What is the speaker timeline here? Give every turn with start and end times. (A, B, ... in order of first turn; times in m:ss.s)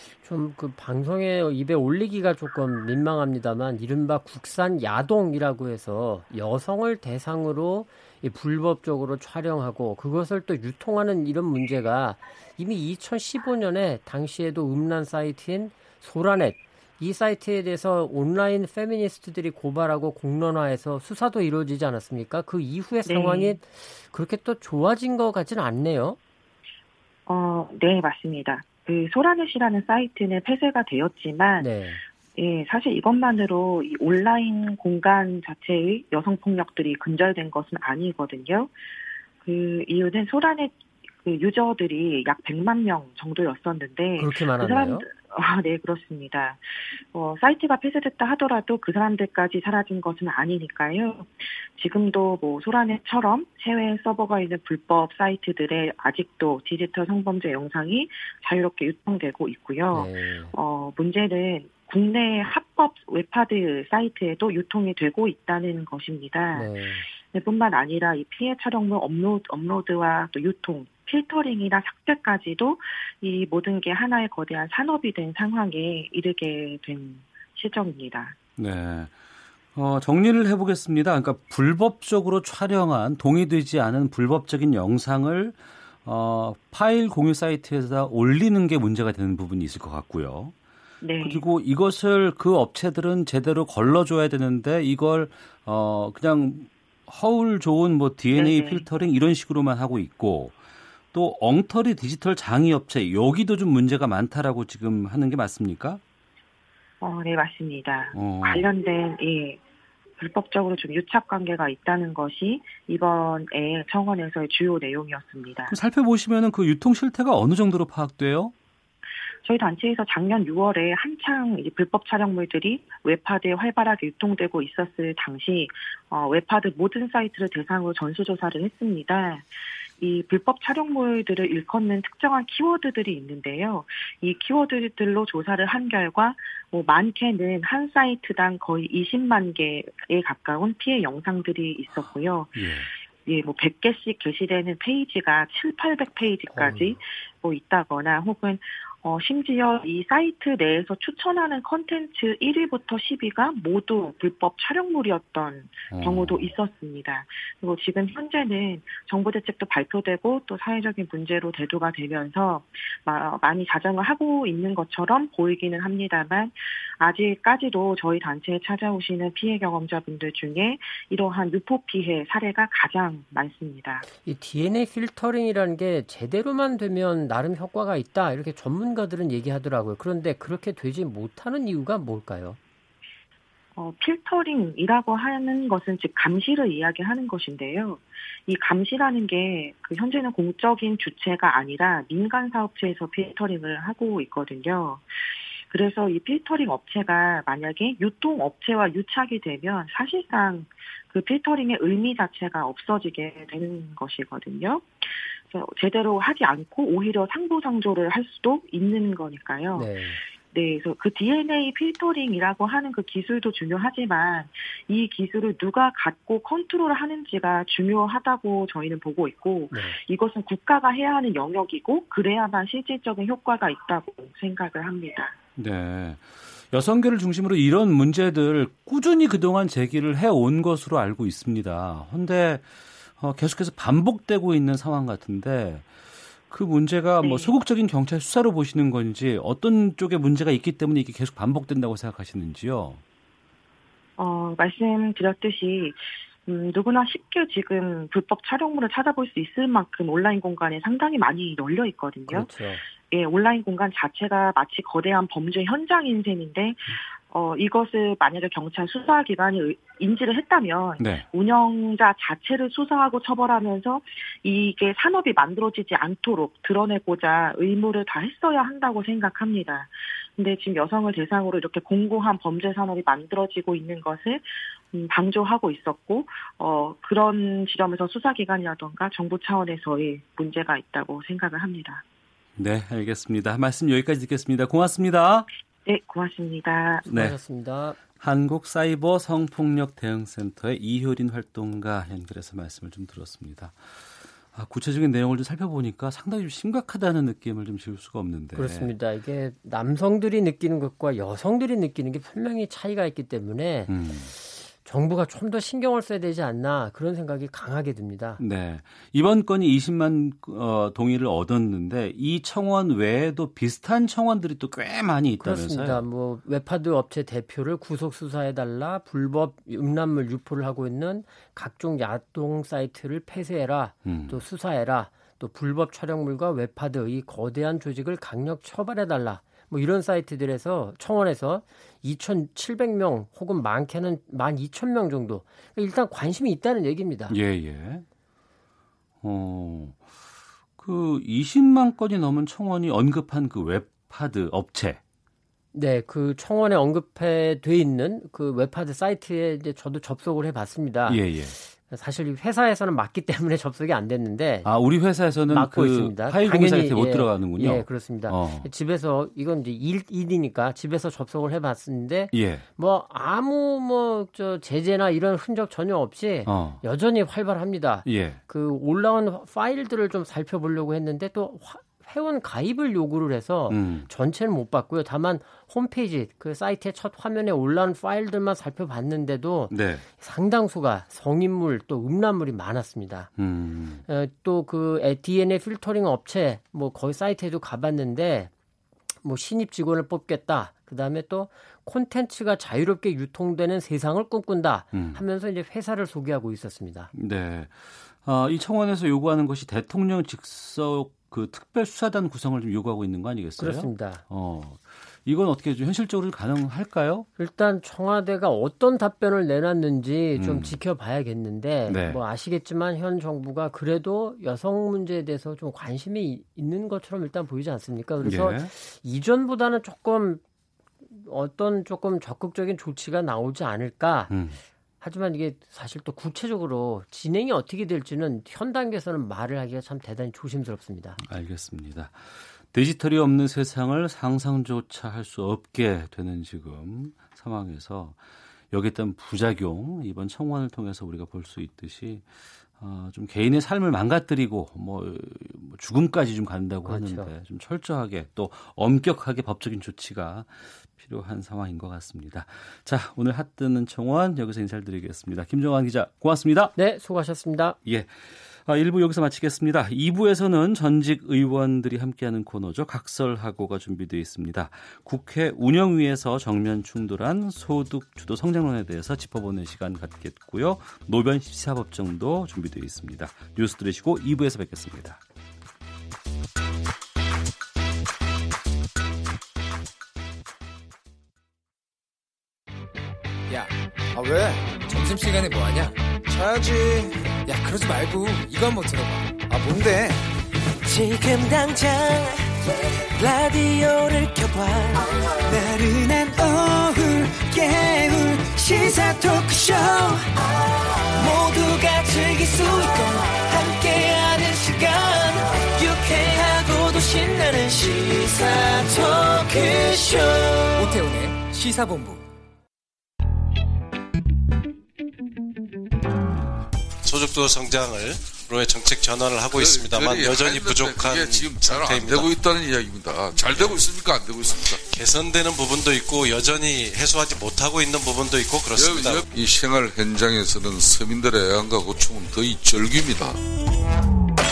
0:00.2-0:26.2 A
0:23.0-0:23.6 B
0:27.3-0:31.7 B
0:31.6-0:32.0 A
0:32.4-0:38.7 B
0:39.4-0:46.6 B
0:44.2-0:45.0 A
0:47.1-1:06.7 B
0:59.9-1:00.6 A
1:06.5-1:07.0 A
1:07.3-1:18.4 B
1:18.6-1:19.2 C
1:19.8-1:30.5 C
1:31.0-1:31.4 B
1:31.2-1:40.6 C
1:38.4-1:38.9 B
1:41.1-1:46.0 C
1:47.0-1:49.6 B
1:48.1-1:48.7 C
1:50.2-1:55.7 B
1:55.7-1:58.5 C
1:59.5-2:09.4 B
2:10.0-2:22.5 B
2:22.5-2:22.9 C
2:23.3-2:54.0 B
2:26.5-2:26.9 A
2:35.9-2:36.5 C
2:54.1-3:02.6 A
3:03.8-3:15.0 B
3:15.7-3:24.9 B
3:25.5-3:29.9 B
3:29.8-3:30.2 A
3:30.5-3:45.4 B
3:39.7-3:40.0 A
3:45.6-3:55.9 C
3:56.5-4:03.0 C
3:57.2-3:57.5 B
4:04.2-4:06.0 B
4:06.5-4:16.8 B
4:12.3-4:12.8 A
4:17.3-4:34.4 B
4:21.0-4:21.2 C
4:34.9-4:42.0 B
4:42.6-4:45.5 C
4:45.9-4:47.0 B
4:47.1-4:47.4 C
4:47.1-4:48.0 A
4:48.2-4:58.9 C
4:58.6-5:08.4 A
5:03.9-5:04.3 C
5:08.4-5:16.0 C
5:15.4-5:37.4 A
5:24.0-5:24.4 C
5:37.3-5:38.0 C
5:39.2-5:40.1 C
5:40.8-5:45.0 C
5:45.7-5:54.7 A
5:51.1-5:51.6 C
5:54.6-5:58.7 C
5:55.5-6:23.3 A
6:02.3-6:02.6 C
6:06.5-6:06.8 C
6:08.0-6:08.4 C
6:13.7-6:14.1 C
6:19.7-6:20.1 C
6:23.4-6:24.0 C
6:24.1-6:28.5 A
6:29.2-6:37.1 A
6:34.9-6:35.2 C
6:37.1-6:47.3 C
6:43.6-6:44.2 A
6:47.4-7:00.4 A
6:50.4-6:50.8 C
6:51.9-6:52.2 C
6:58.2-6:58.7 C
7:01.1-7:04.4 A
7:04.3-7:04.6 C
7:05.0-7:11.2 A
7:11.2-7:18.2 C
7:18.7-7:36.7 C
7:26.8-7:27.3 A
7:36.8-7:37.8 A
7:37.8-7:55.2 C
8:03.5-8:10.2 D
8:10.8-8:12.4 E
8:13.2-8:31.0 E
8:30.8-8:32.2 D
8:37.0-8:42.5 F
8:39.6-8:44.8 G
8:43.4-8:43.9 F
8:44.9-8:49.3 F
8:48.8-8:53.4 G